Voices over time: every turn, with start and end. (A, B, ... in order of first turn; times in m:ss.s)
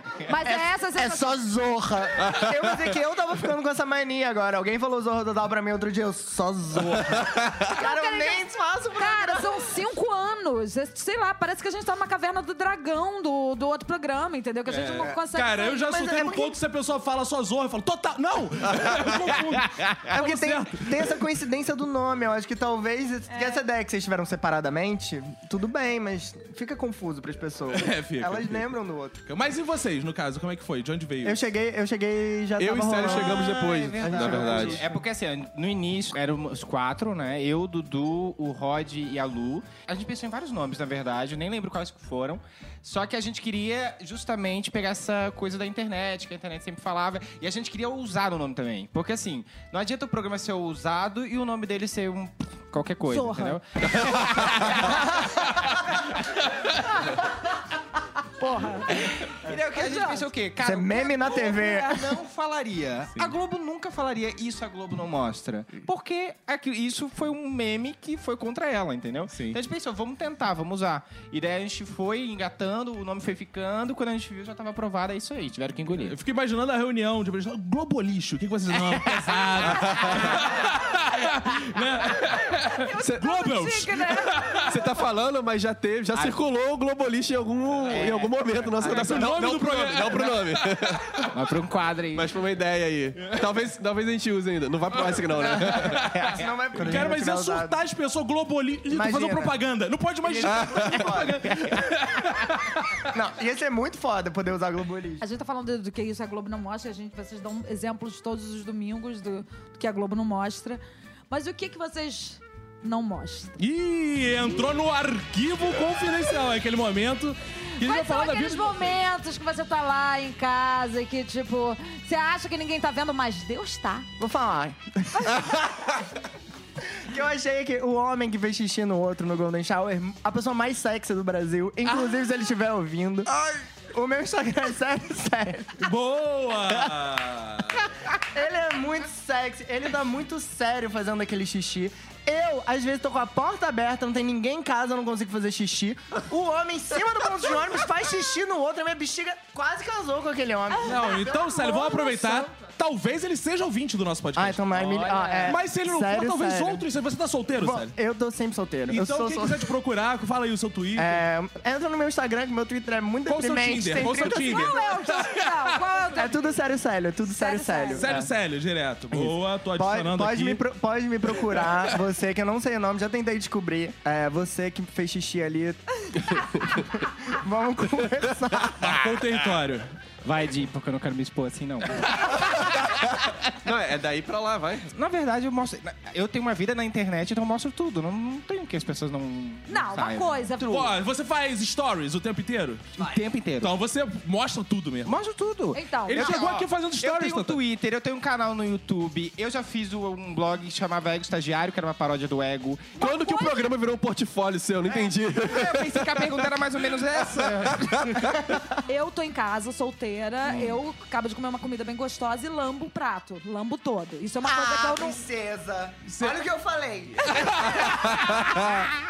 0:00.2-0:01.4 A
0:00.3-0:09.7 B
0:07.7-0:08.4 A
0:09.0-0:16.2 A
0:14.7-0:21.2 C
0:15.9-0:16.6 B
0:20.1-0:29.2 B
0:27.7-0:28.7 C
0:29.3-0:31.4 C
0:31.2-0:35.0 B
0:32.6-0:34.9 D
0:33.0-0:55.5 E
0:53.1-0:53.6 A
0:58.4-0:59.2 A
0:58.9-1:16.2 E
0:59.7-1:00.3 A
1:00.6-1:02.2 B
1:01.3-1:01.9 A
1:09.3-1:09.6 C
1:16.0-1:24.7 C
1:18.9-1:19.3 E
1:19.6-1:20.5 D
1:22.7-1:24.8 A
1:23.0-1:23.3 D
1:24.7-1:31.3 D
1:26.1-1:26.4 E
1:27.9-1:29.2 E
1:28.8-1:29.3 B
1:28.8-1:31.3 C
1:31.3-1:32.4 E
1:32.1-1:36.1 D
1:35.1-1:43.1 C
1:36.2-1:36.4 E
1:36.3-1:37.8 B
1:38.9-1:39.6 B
1:40.2-1:41.5 B
1:40.5-1:41.0 D
1:43.1-1:45.2 B
1:45.2-1:53.6 A
1:53.6-1:59.0 C
1:57.8-2:04.1 A
2:04.2-2:06.0 B
2:06.9-2:15.9 B
2:15.8-2:17.9 C
2:18.2-2:31.9 B
2:30.7-2:32.5 A
2:30.8-2:37.9 C
2:34.4-2:36.8 B
2:34.7-2:35.6 E
2:37.6-2:39.7 B
2:38.9-2:41.2 C
2:41.0-2:44.8 B
2:43.3-2:45.8 C
2:44.2-2:46.5 A
2:46.1-2:48.3 B
2:47.3-2:48.1 A
2:48.0-2:50.6 C
2:49.8-2:59.0 B
2:58.8-3:00.0 C
2:58.8-2:59.2 E
3:00.2-3:02.7 E
3:02.6-3:04.9 D
3:04.9-3:10.5 E
3:09.7-3:11.0 A
3:10.6-3:15.1 C
3:13.0-3:13.8 E
3:15.0-3:22.9 E
3:15.7-3:16.5 A
3:16.1-3:17.6 C
3:23.0-3:23.7 A
3:23.0-3:26.6 D
3:24.9-3:28.3 E
3:27.2-3:28.4 D
3:28.3-3:28.7 B
3:28.8-3:35.2 A
3:30.4-3:30.8 E
3:34.4-3:38.2 B
3:36.1-3:36.4 C
3:37.2-3:38.8 C
3:38.0-3:38.9 D